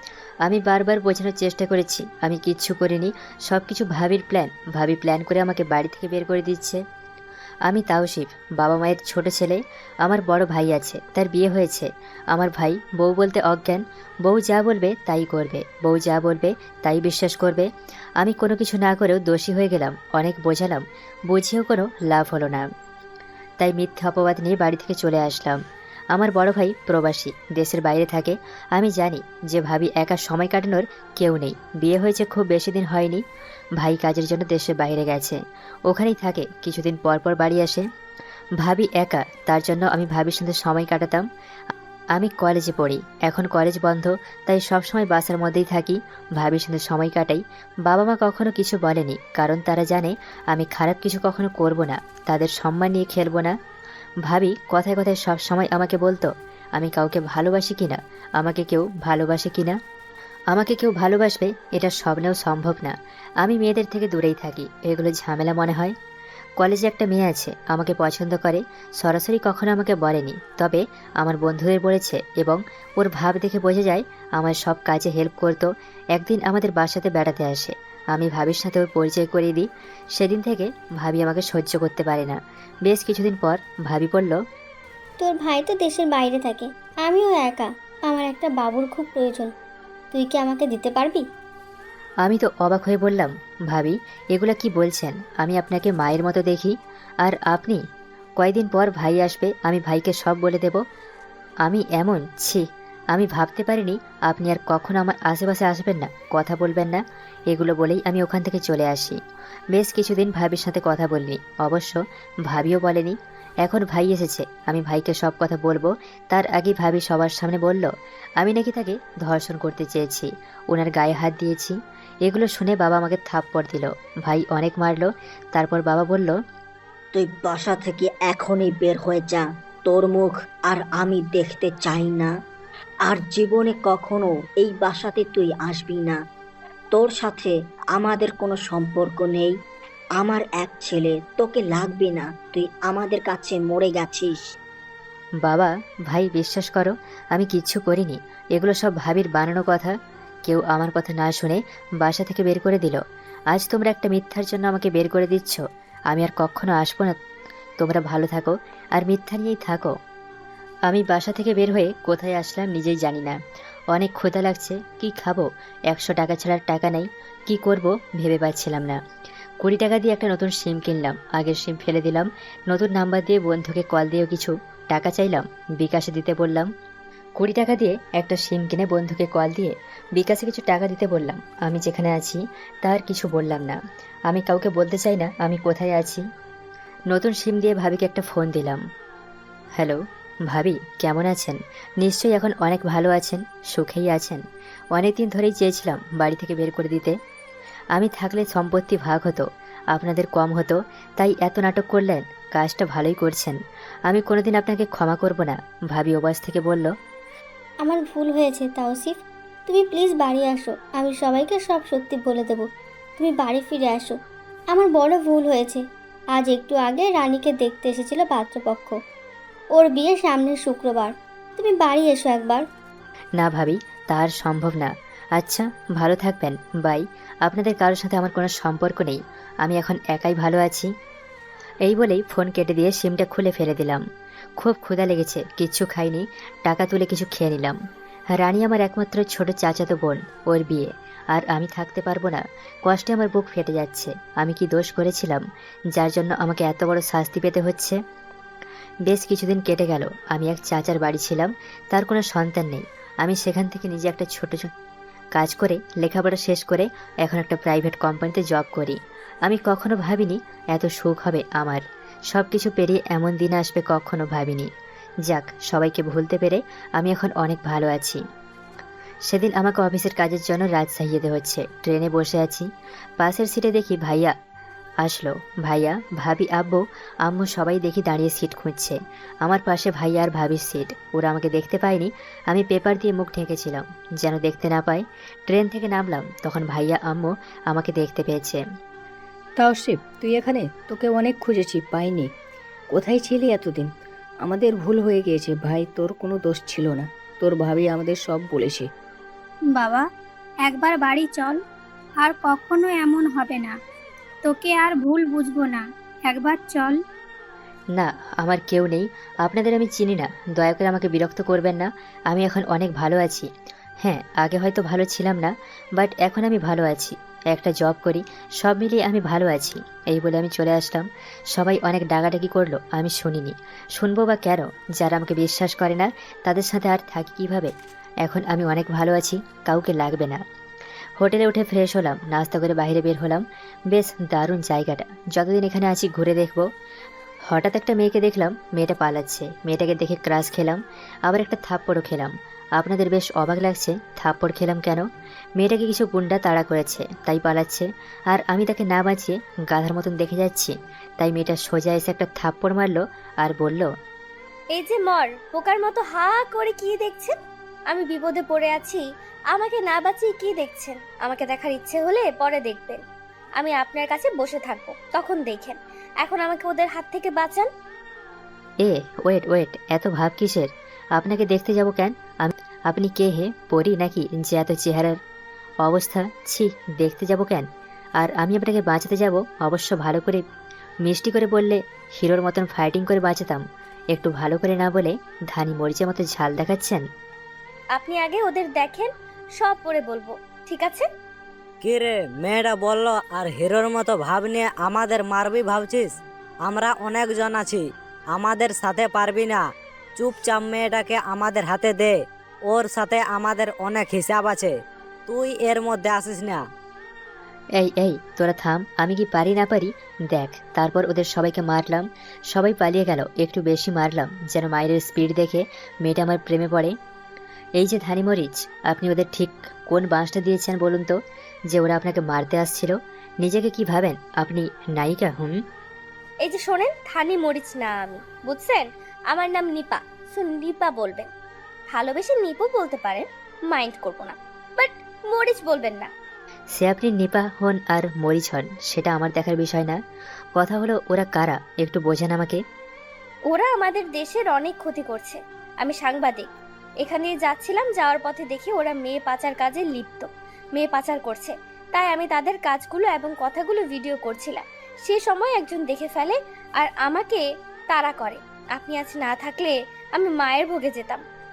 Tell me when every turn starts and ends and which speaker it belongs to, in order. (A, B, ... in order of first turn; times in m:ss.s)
0:00.4-0:06.8 A
0:07.7-0:17.7 A
0:18.2-0:22.7 A
0:23.6-0:25.6 A
0:26.1-0:33.2 A
0:33.8-0:37.8 A
0:38.6-0:41.2 A
0:42.2-0:53.5 A
0:54.2-0:59.8 A
1:00.5-1:05.9 A
1:06.6-1:24.4 A
1:25.2-1:29.5 B
1:30.1-1:31.2 B
1:32.2-1:37.8 A
1:38.4-1:40.8 A
1:41.6-1:49.2 A
1:49.7-2:06.3 A
2:07.1-2:12.3 C
2:13.0-2:16.2 C
2:16.9-2:19.5 C
2:20.2-2:24.4 C
2:25.4-2:29.9 A
2:30.4-2:33.0 A
2:33.5-2:37.2 A
2:37.8-2:39.9 A
2:40.9-2:43.4 A
2:43.9-2:49.0 A
2:49.6-2:56.7 A
2:57.4-3:03.8 A
3:04.3-3:06.2 A
3:07.1-3:08.8 A
3:09.8-3:14.4 A
3:14.9-3:17.2 A
3:17.9-3:26.9 A
3:27.8-3:32.6 B
3:33.2-3:34.2 B
3:34.7-3:35.8 B
3:36.3-3:38.9 B
3:39.7-3:42.6 B
3:43.4-3:50.9 A
3:51.8-3:54.0 A
3:54.6-3:57.8 A
3:58.4-4:08.0 A
4:09.0-4:14.7 A
4:15.4-4:24.7 A
4:25.2-4:28.2 A
4:29.3-4:32.6 A
4:33.2-4:34.3 A
4:35.0-4:48.6 A
4:49.6-4:52.3 D
4:52.9-4:53.9 D
4:54.4-4:58.9 D
4:59.7-5:00.0 E
5:00.6-5:01.6 E
5:02.2-5:03.7 E
5:04.4-5:07.0 E
5:07.9-5:13.5 A
5:14.0-5:27.7 A
5:28.2-5:30.4 A
5:31.2-5:36.6 A
5:37.5-5:45.0 A
5:45.6-5:53.9 A
5:54.7-5:57.4 F
5:57.9-6:03.0 F
6:03.6-6:07.7 F
6:08.8-6:15.2 A
6:15.8-6:17.7 A
6:18.2-6:20.4 A
6:21.0-6:27.0 A
6:28.0-6:31.1 F
6:31.8-6:36.1 G
6:36.6-6:37.8 G
6:38.3-6:39.6 G
6:40.2-6:42.2 G
6:42.7-6:44.7 G
6:45.3-6:46.6 G
6:47.8-6:56.9 A
6:57.8-7:01.2 A
7:01.7-7:05.6 A
7:06.4-7:11.3 F
7:11.9-7:16.1 F
7:16.7-7:20.0 A
7:20.6-7:22.6 A
7:23.5-7:26.5 F
7:27.0-7:41.2 F